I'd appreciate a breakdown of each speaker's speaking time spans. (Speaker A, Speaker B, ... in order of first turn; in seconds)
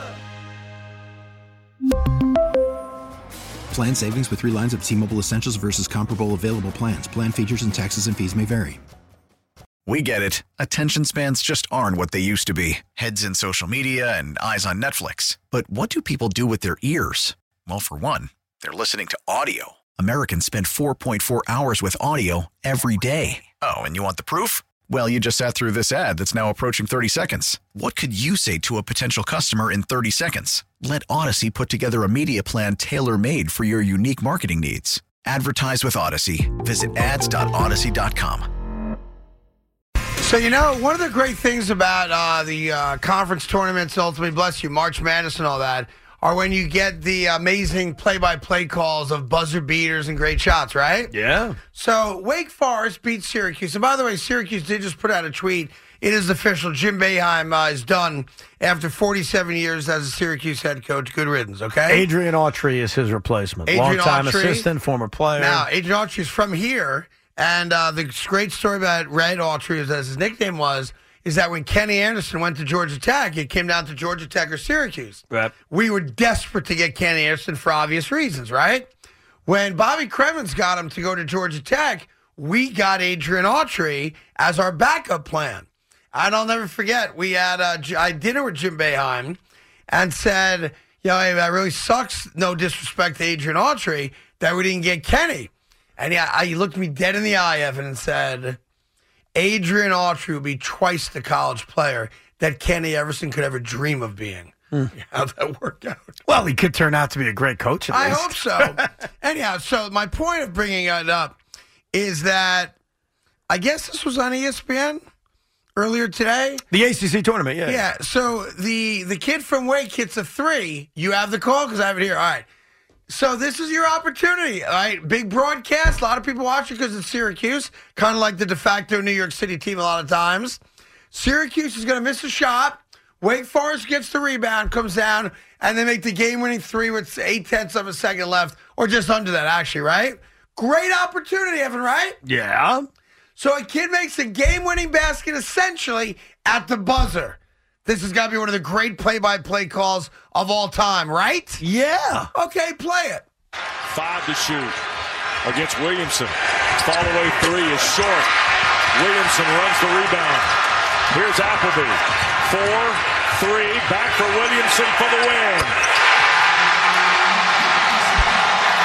Speaker A: 3.7-8.8
Speaker B: 9.9-38.5
Speaker C: 40.2-51.1, 51.7-62.1, 63.7-64.7, 65.4-78.9, 79.5-89.4, 89.9-98.6, 99.3-106.2, 107.9-111.4, 111.9-112.8, 113.5-115.0, 115.8-116.6, 117.6-122.5, 123.1-130.6, 131.1-142.2, 143.4-151.6, 152.3-153.3
Speaker D: 51.1-51.6, 61.9-65.7, 106.3-108.9, 116.7-117.8, 142.2-142.9, 151.6-152.3
Speaker E: 153.9-154.8, 155.4-158.3, 158.9-160.6, 161.1-165.8